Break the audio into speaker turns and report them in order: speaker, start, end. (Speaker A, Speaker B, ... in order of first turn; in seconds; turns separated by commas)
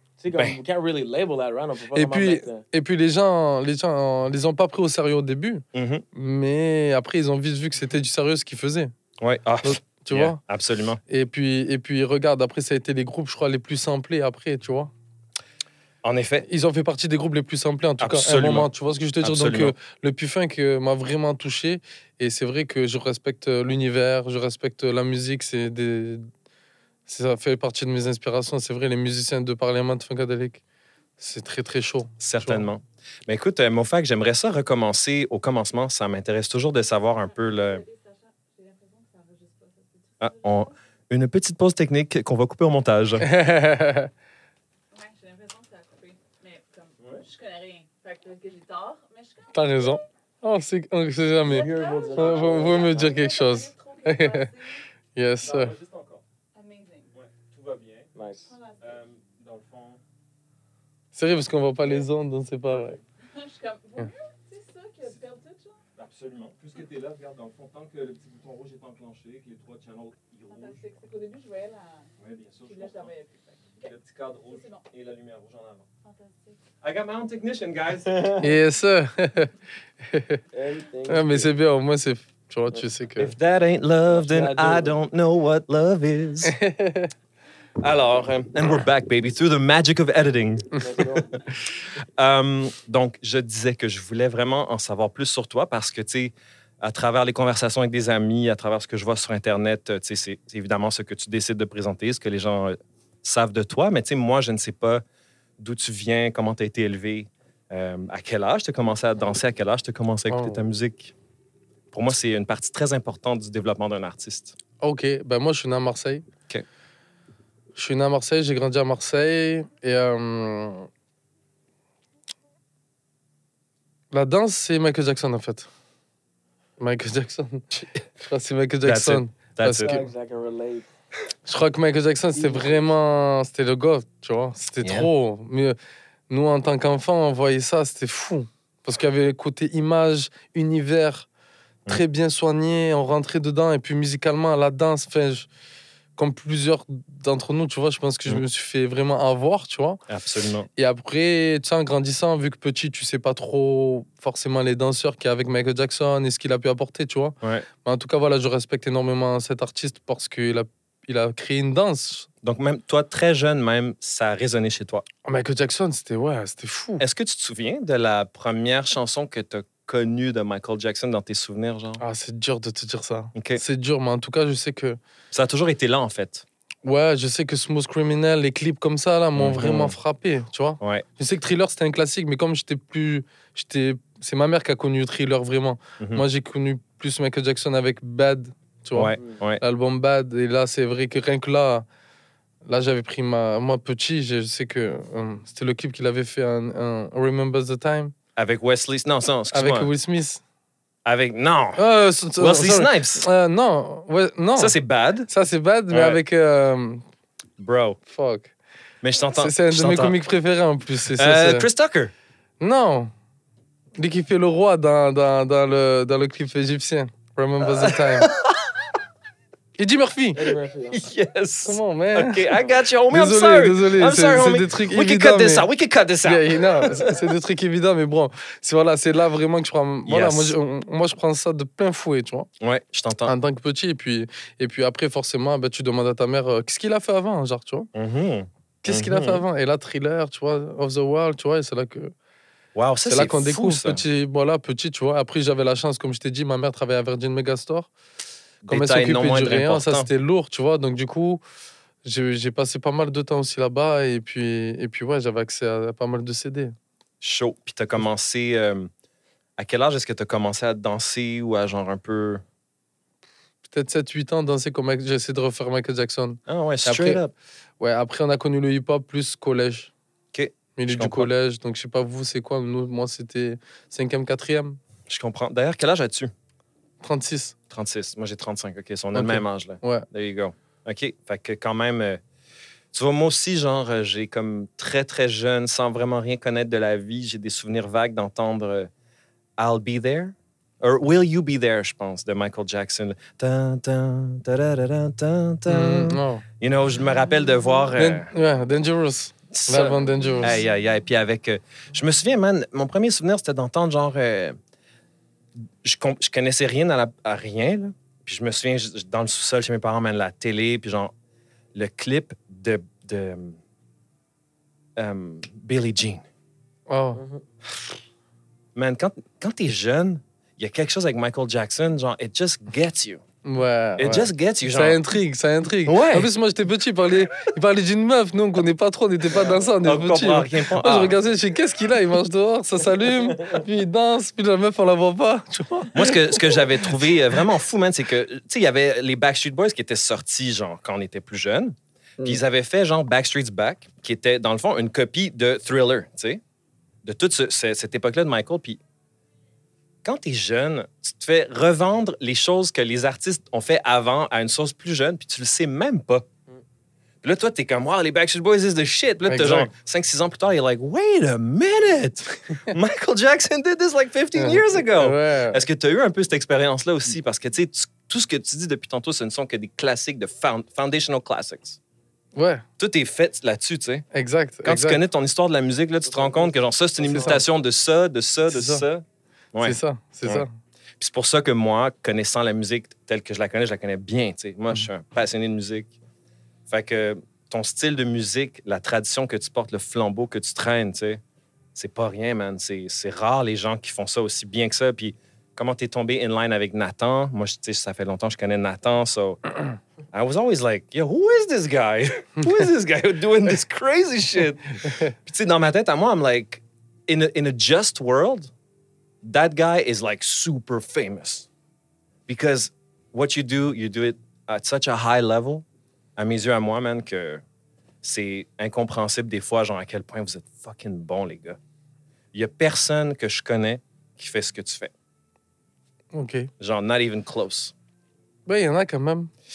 Speaker A: 0.2-2.6, Speaker B: 1.9-8.9, Speaker C: 5.7-6.0, Speaker C: 9.2-11.0, Speaker B: 9.6-10.4, Speaker B: 11.1-14.9, Speaker C: 16.0-16.5, Speaker B: 16.5-26.3, Speaker C: 18.0-18.7, Speaker C: 19.2-19.7, Speaker B: 27.1-30.6, Speaker B: 31.2-32.7, Speaker C: 32.2-37.8, Speaker D: 37.2-40.7, Speaker C: 40.2-43.3, Speaker B: 43.2-44.1, Speaker D: 44.9-50.0, Speaker B: 49.5-54.5, Speaker D: 51.4-54.8, Speaker A: 51.5-53.2, Speaker B: 55.1-55.7, Speaker C: 55.4-56.2, Speaker D: 56.5-57.1, Speaker C: 57.1-58.1, Speaker A: 58.1-58.5, Speaker D: 58.5-59.1, Speaker C: 58.8-60.0, Speaker B: 61.1-63.0, Speaker D: 63.3-65.8, Speaker C: 65.9-70.8, Speaker D: 70.5-72.1, Speaker C: 72.2-73.1, Speaker D: 72.6-73.9, Speaker C: 73.8-75.8, Speaker D: 74.5-74.8, Speaker D: 76.0-76.6, Speaker C: 76.8-78.4, Speaker A: 78.1-78.4, Speaker B: 78.4-80.4, Speaker A: 80.5-81.5, Speaker B: 81.1-83.3, Speaker C: 83.2-86.5, Speaker A: 84.1-85.0, Speaker B: 86.4-87.1, Speaker C: 87.8-91.4, Speaker A: 90.8-91.4, Speaker C: 92.1-105.0, Speaker C: 105.6-111.1, Speaker B: 110.3-110.6, Speaker C: 111.9-114.5, Speaker B: 114.8-116.2, Speaker B: 117.7-120.9, Speaker B: 124.1-125.7, Speaker B: 126.8-127.7, Speaker B: 128.2-130.1, Speaker C: 128.8-129.9, Speaker A: 129.8-130.9, Speaker B: 131.4-135.8, Speaker A: 132.3-132.8, Speaker C: 134.8-135.1, Speaker B: 136.3-141.3, Speaker B: 141.9-145.5, Speaker B: 146.2-150.0, Speaker C: 150.1-150.7, Speaker B: 150.8-162.3, Speaker C: 157.4-157.7, Speaker C: 162.4-165.1, Speaker B: 165.2-167.0, Speaker C: 167.0-172.0, Speaker B: 172.0-175.0, Speaker C: 173.3-173.6, Speaker C: 175.3-176.4, Speaker B: 176.8-191.8, Speaker C: 179.4-179.9, Speaker C: 180.8-181.1, Speaker C: 186.0-186.2, Speaker C: 188.9-189.6, Speaker B: 192.6-198.1, Speaker C: 198.3-199.9, Speaker B: 199.5-200.4, Speaker C: 201.0-201.8, Speaker B: 201.8-204.8, Speaker C: 202.4-203.3, Speaker C: 204.6-205.3, Speaker B: 205.3-207.0, Speaker C: 205.9-206.2, Speaker C: 207.6-208.0, Speaker B: 208.1-208.5, Speaker C: 209.0-210.2, Speaker B: 209.3-211.7, Speaker C: 211.1-212.1, Speaker B: 212.6-213.1, Speaker B: 213.9-218.3, Speaker C: 217.6-218.9, Speaker B: 219.8-220.4, Speaker A: 220.3-221.0, Speaker C: 220.9-227.3, Speaker B: 221.6-222.6, Speaker B: 223.1-225.7, Speaker B: 226.2-232.5, Speaker C: 230.1-230.5, Speaker C: 232.6-233.3, Speaker B: 233.2-237.9, Speaker C: 237.9-239.4, Speaker B: 238.8-242.1, Speaker C: 242.7-244.0, Speaker B: 243.1-247.9, Speaker C: 248.6-250.1, Speaker B: 248.7-251.4, Speaker B: 252.0-256.7, Speaker C: 257.2-258.9, Speaker C: 259.6-262.4, Speaker B: 263.7-267.2, Speaker C: 266.5-267.3, Speaker B: 267.8-269.9, Speaker C: 270.3-271.3, Speaker B: 270.8-274.8, Speaker C: 275.1-276.3, Speaker B: 277.0-277.5, Speaker C: 277.7-282.2, Speaker B: 279.1-280.0, Speaker C: 282.9-288.9, Speaker C: 289.6-298.3, Speaker B: 295.7-296.4, Speaker B: 297.9-300.6, Speaker C: 299.5-304.6, Speaker C: 305.8-311.1, Speaker C: 311.7-313.6, Speaker C: 315.0-316.2, Speaker B: 316.9-317.2, Speaker A: 317.1-317.4, Speaker C: 318.7-323.2, Speaker B: 323.4-336.6, Speaker C: 324.0-325.0, Speaker C: 325.9-326.3, Speaker A: 329.3-329.7, Speaker C: 329.8-331.1, Speaker A: 333.1-333.6, Speaker C: 335.9-346.4, Speaker C: 347.0-348.8, Speaker C: 350.0-356.2, Speaker C: 357.2-371.8, Speaker B: 359.2-359.7, Speaker B: 364.3-365.6, Speaker B: 372.3-372.6, Speaker C: 372.8-374.1, Speaker B: 374.1-375.0, Speaker C: 374.6-380.4, Speaker A: 376.1-376.5, Speaker B: 377.0-377.4, Speaker A: 377.0-377.4, Speaker B: 378.5-378.9, Speaker B: 379.6-380.5, Speaker C: 381.0-385.9, Speaker C: 386.7-391.2, Speaker C: 391.7-399.4, Speaker C: 400.1-408.5, Speaker C: 409.2-411.5, Speaker C: 412.3-415.6, Speaker C: 416.2-417.4, Speaker C: 418.0-421.6, Speaker C: 422.3-424.9, Speaker B: 426.1-426.5, Speaker C: 426.6-427.7, Speaker B: 428.4-429.3